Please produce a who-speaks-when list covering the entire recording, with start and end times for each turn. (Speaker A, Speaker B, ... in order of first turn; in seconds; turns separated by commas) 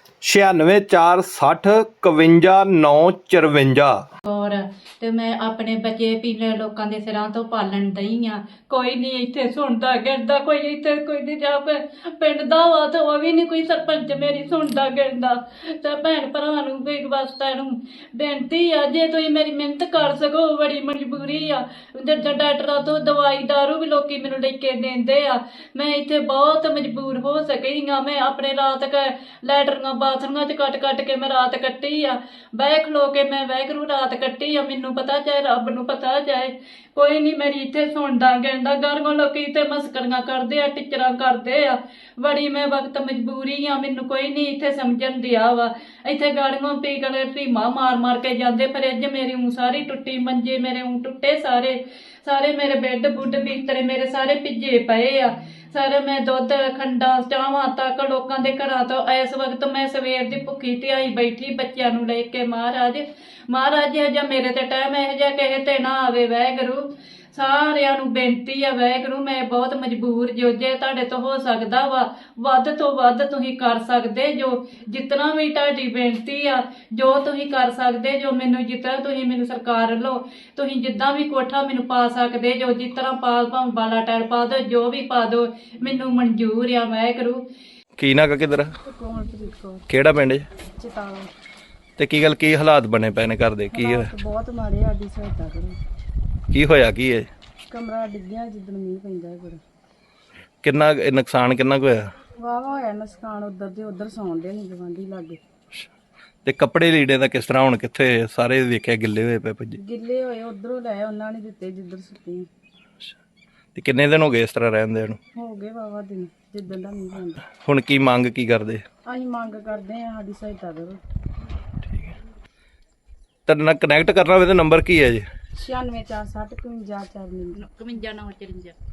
Speaker A: 0.2-4.0, Speaker B: 4.2-87.4, Speaker A: 88.0-88.7, Speaker C: 88.9-89.8, Speaker A: 89.9-90.4, Speaker C: 90.8-91.3, Speaker A: 92.0-94.1, Speaker C: 93.7-95.7, Speaker A: 96.5-97.3, Speaker C: 97.7-99.6, Speaker A: 100.6-102.0, Speaker C: 102.4-105.4, Speaker A: 106.4-109.8, Speaker C: 109.8-112.5, Speaker A: 113.7-115.2, Speaker C: 115.3-117.4, Speaker A: 117.5-118.8, Speaker C: 119.0-121.0, Speaker A: 123.5-125.2, Speaker C: 125.6-127.6, Speaker B: 127.5-128.8